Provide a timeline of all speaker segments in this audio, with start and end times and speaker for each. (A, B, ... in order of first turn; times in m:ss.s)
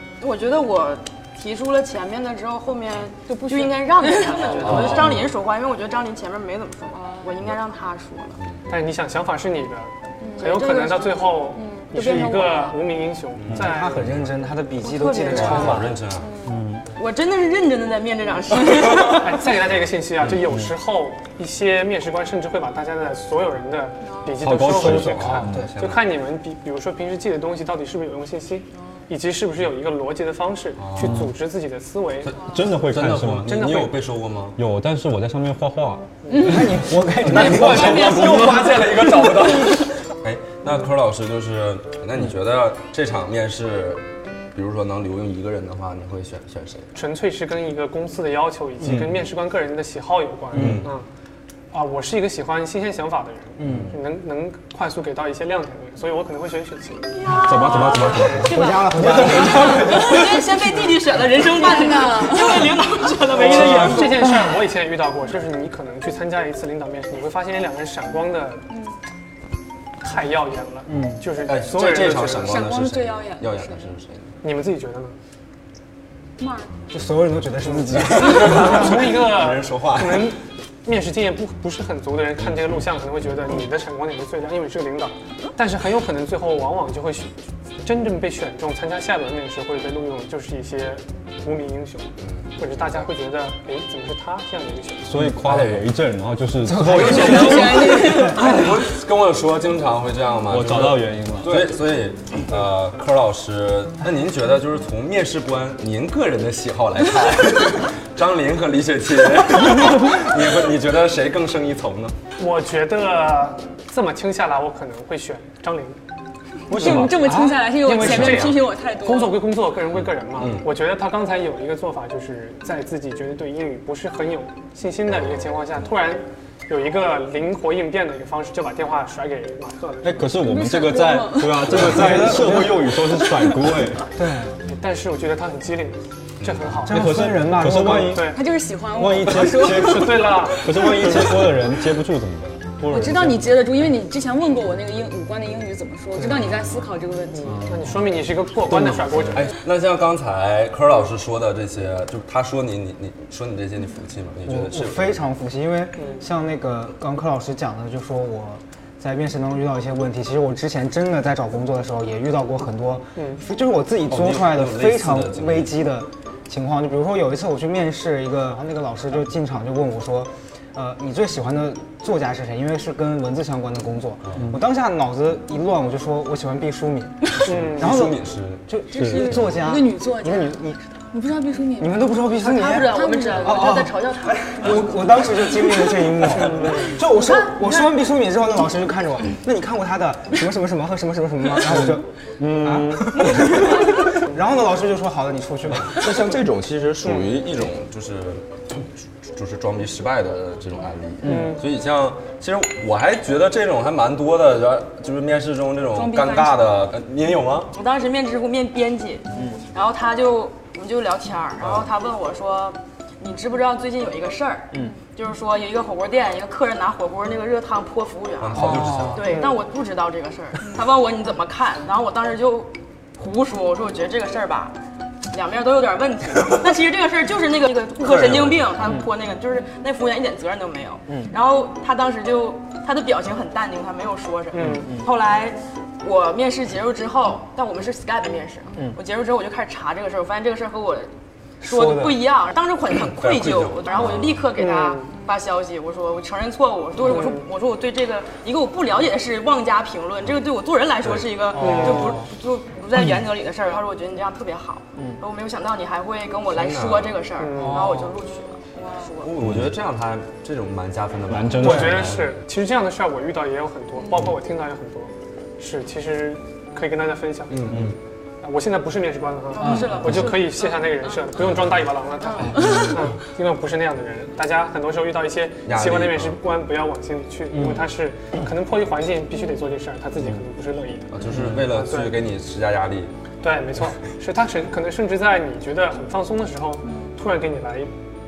0:00.2-0:08.4 A
0:03.3-0:04.7 B
0:04.5-0:05.0 C
0:04.6-0:05.3 D
0:06.9-0:07.3 B
0:08.4-0:08.7 D
0:08.7-0:14.1 C
0:10.2-0:12.8 B
0:13.4-0:14.3 D
0:13.5-0:15.9 E
0:14.8-0:15.9 A
0:15.3-0:16.3 D
0:15.5-0:15.8 C
0:16.2-0:16.6 B
0:16.4-0:16.8 F
0:17.0-0:19.3 A
0:19.0-0:32.4 C
0:24.0-0:24.4 B
0:24.4-0:25.7 F
0:24.5-0:26.0 D
0:30.8-0:31.3 D
0:31.0-0:31.3 F
0:32.2-0:34.6 D
0:32.4-0:33.5 F
0:33.5-0:34.0 C
0:34.6-0:36.1 F
0:36.3-0:36.7 C
0:36.3-0:36.8 B
0:36.3-0:38.9 E
0:37.2-0:46.9 D
0:37.4-0:38.8 B
0:47.0-0:51.1 C
0:48.8-0:49.1 D
0:50.5-0:50.9 D
0:50.6-0:50.8 E
0:51.7-0:57.1 C
0:53.6-0:53.9 E
0:53.7-0:53.9 D
0:57.2-1:00.2 B
0:57.4-0:58.3 A
0:57.4-0:59.5 F
0:58.4-1:00.3 E
0:59.7-1:04.2 A
1:01.5-1:03.2 B
1:03.3-1:08.7 C
1:08.7-1:09.0 B
1:10.0-1:12.6 C
1:10.9-1:11.2 E
1:11.4-1:14.3 D
1:12.4-1:14.0 B
1:14.4-1:15.2 C
1:16.4-1:16.7 B
1:16.9-1:19.0 E
1:17.8-1:20.4 D
1:18.0-1:35.2 C
1:32.2-1:33.1 D
1:35.0-1:37.7 F
1:35.4-1:35.9 D
1:36.6-1:38.5 E
1:36.9-1:52.1 D
1:37.1-1:38.5 B
1:40.5-1:41.7 F
1:52.4-1:56.0 C
1:56.7-1:59.4 B
1:56.7-1:57.1 F
1:56.7-2:10.3 C
1:56.8-1:57.6 E
2:00.0-2:00.7 D
2:10.0-2:14.1 F
2:10.3-2:11.6 B
2:11.7-2:12.9 E
2:14.1-2:14.6 E
2:14.7-2:17.0 C
2:16.4-2:16.7 D
2:16.8-2:18.2 E
2:16.9-2:18.4 F
2:18.0-2:18.4 C
2:18.2-2:20.1 B
2:19.0-2:23.4 F
2:19.6-2:20.7 C
2:22.8-2:27.6 B
2:27.6-2:29.4 C
2:29.2-2:35.2 D
2:34.5-3:00.8 E
2:36.0-2:36.2 C
2:43.2-2:43.4 C
2:44.1-2:45.7 D
2:57.5-2:58.0 C
2:57.5-2:58.6 D
2:58.9-3:03.9 B
2:58.9-2:59.4 F
3:01.8-3:16.4 E
3:02.4-3:04.8 A
3:06.4-3:07.0 C
3:11.8-3:13.2 F
3:15.8-3:27.7 D
3:17.0-3:17.3 C
3:21.2-3:21.6 C
3:25.9-3:26.7 B
3:27.7-3:44.8 A
3:31.6-3:31.9 D
3:38.4-3:39.3 D
3:38.6-3:39.2 E
3:45.3-4:01.1 A
3:48.0-3:48.8 D
3:54.5-3:55.0 C
3:54.7-3:55.1 E
4:01.6-4:02.2 E
4:01.6-4:19.3 A
4:03.1-4:04.5 D
4:04.6-4:05.1 C
4:07.1-4:07.5 C
4:11.0-4:11.4 D
4:11.6-4:12.2 C
4:11.6-4:12.2 E
4:16.5-4:17.2 D
4:17.4-4:18.1 C
4:19.2-4:22.4 D
4:21.3-4:22.2 F
4:21.6-4:27.8 C
4:21.6-4:21.9 E
4:27.5-4:28.0 D
4:28.4-4:42.2 C
4:29.5-4:30.8 A
4:29.6-4:29.9 E
4:31.4-4:31.8 D
4:32.4-4:32.9 B
4:35.6-4:36.4 D
4:41.1-4:43.1 D
4:43.4-4:47.9 C